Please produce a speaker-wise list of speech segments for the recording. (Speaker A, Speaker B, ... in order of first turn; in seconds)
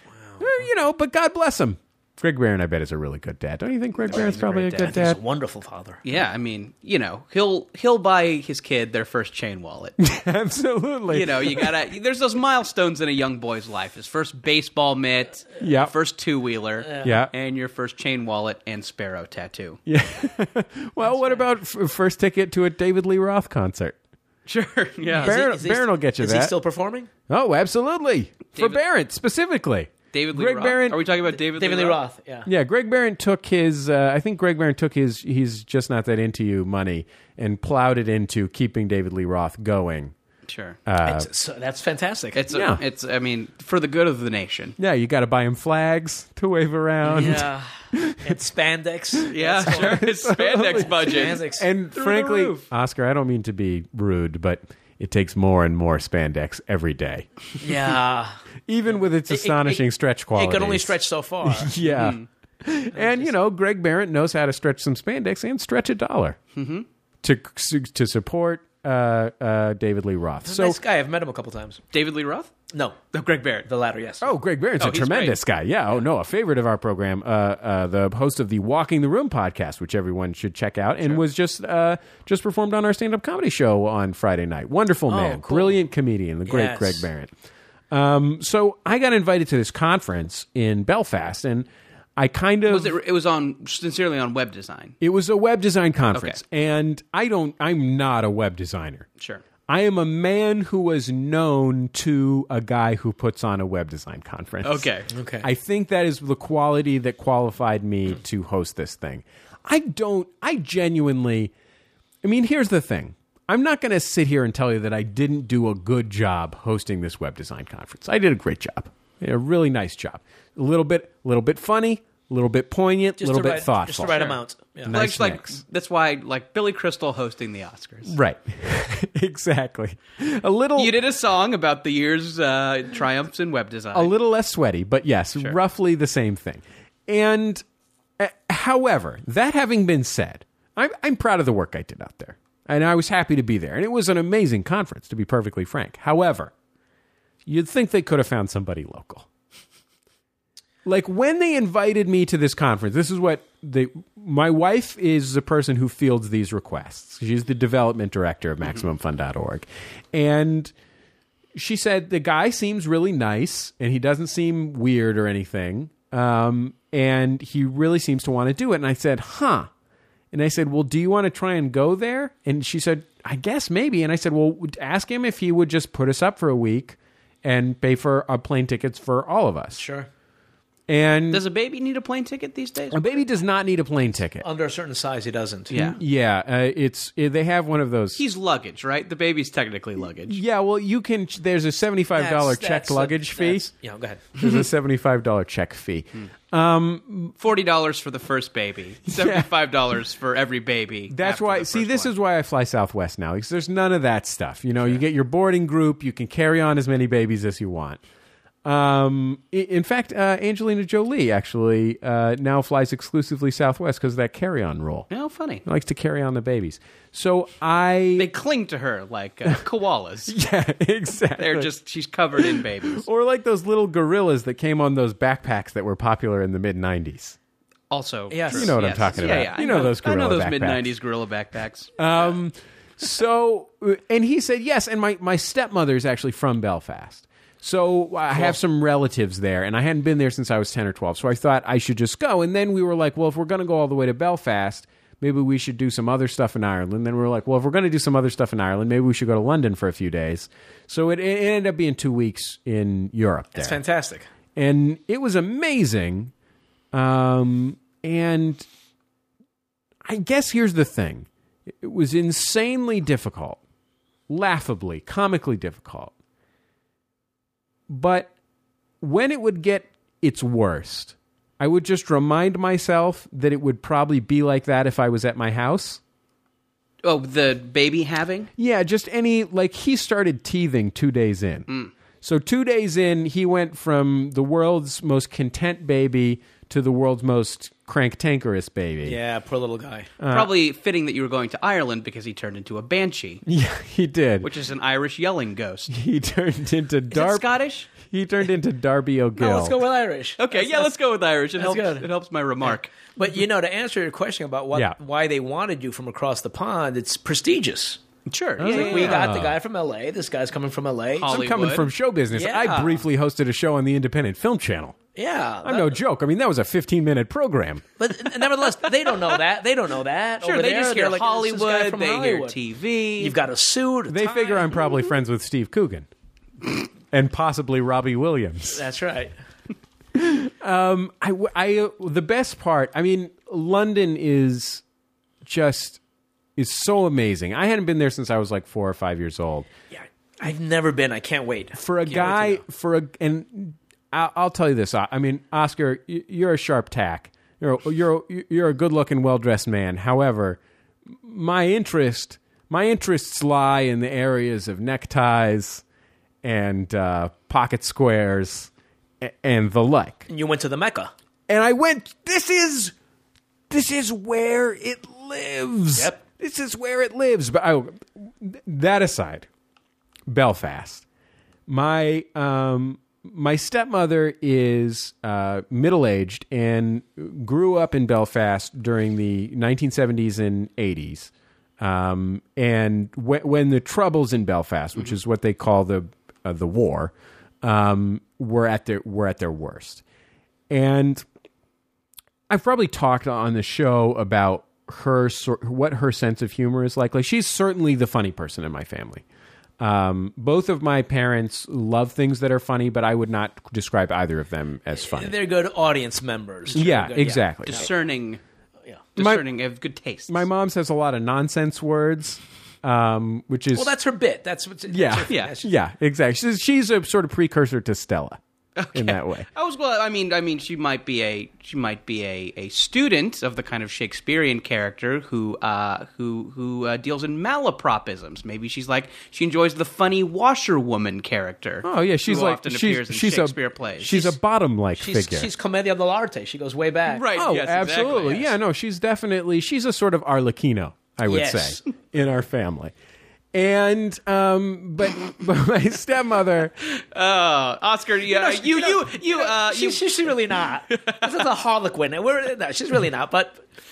Speaker A: 0.2-0.5, 4.8-6.0, 16.8-17.1, 21.0-21.4, 25.2-27.1, 31.3-32.5, 41.0-42.4, 47.1-47.7, 48.2-50.0, 50.8-51.7, 57.6-58.4, 59.3-59.8, 60.4-61.9, 62.9-63.3, 70.5-71.8, 72.7-73.0, 73.7-74.3, 85.1-85.8, 86.5-87.1, 105.1-105.5, 123.2-125.0, 179.8-180.1, 184.4-185.7, 192.2-194.2, 228.3-229.1, 253.6-254.3, 289.0-290.1, 299.4-300.9, 301.6-302.1, 303.2-308.0, 308.6-311.4, 312.3-313.0, 315.2-315.9, 318.0-322.6, 323.2-324.8, 328.7-329.3, 339.9-342.6, 360.3-361.1, 365.9-366.2, 405.0-407.9, 413.7-415.7, 435.0-437.4, 441.3-441.8, 448.3-453.6
Speaker B: 0.4-5.2, 10.0-11.8, 15.6-15.9, 17.0-17.3, 19.9-24.0, 25.2-26.6, 27.3-31.0, 32.5-40.1, 40.9-41.3, 42.5-42.8, 44.8-48.4, 49.1-57.8, 58.7-60.9, 61.5-66.4, 67.2-70.8, 74.2-87.3, 87.9-93.0, 95.0-99.1, 99.7-104.9, 105.4-111.5, 112.2-125.6, 128.1-130.9, 133.9-137.6, 138.2-146.5, 147.5-149.3, 150.8-160.7, 161.6-169.7, 170.3-179.8, 180.9-181.4, 182.9-184.4, 185.7-188.2, 190.3-193.7, 194.4-197.3, 199.1-199.5, 201.1-208.0, 208.7-215.1, 215.7-218.3, 220.3-221.7, 222.4-227.4, 228.5-230.9, 232.0-253.8, 254.6-256.3, 256.9-258.7, 260.1-263.6, 264.3-266.1, 267.9-268.3, 269.0-276.0, 278.6-281.7, 282.2-289.2, 290.2-290.5, 293.4-294.5, 295.9-299.8, 308.6-309.6, 311.3-315.0, 315.6-317.9, 324.1-326.1, 327.1-328.9, 330.1-334.8, 335.4-336.0, 336.6-339.7, 341.8-350.6, 351.1-355.8, 356.4-358.7, 359.2-360.3, 361.5-362.9, 363.7-369.5, 370.3-371.0, 371.7-387.1, 387.6-390.0, 390.7-391.2, 392.5-399.2, 399.8-405.4, 406.7-407.9, 409.2-409.4, 410.3-413.9, 414.9-418.4, 418.9-419.5, 431.8-435.5, 437.4-442.9, 443.5-446.8
Speaker C: 4.1-5.0, 6.0-10.0, 11.1-19.8, 24.5-25.4, 28.5-28.8, 30.1-32.0, 40.5-40.8, 42.4-44.8, 47.1-47.4, 49.3-52.6, 61.9-62.3, 66.6-66.9, 71.9-72.5, 73.1-73.7, 74.8-75.4, 92.7-95.0, 96.1-96.4, 99.2-99.4, 104.6-105.1, 124.9-128.2, 130.8-134.1, 181.3-183.2, 185.7-186.0, 188.2-190.4, 197.4-202.1, 215.1-215.6, 218.2-220.4, 221.4-223.0, 227.9-231.9, 277.0-278.5, 290.3-293.4, 294.4-295.9, 297.1-297.9, 300.4-302.9, 308.3-309.3, 311.2-311.9, 320.4-323.4, 407.7-408.4, 409.2-410.5, 415.3-415.5, 418.8-434.3, 437.1-438.4, 447.0-450.1, 450.9-451.3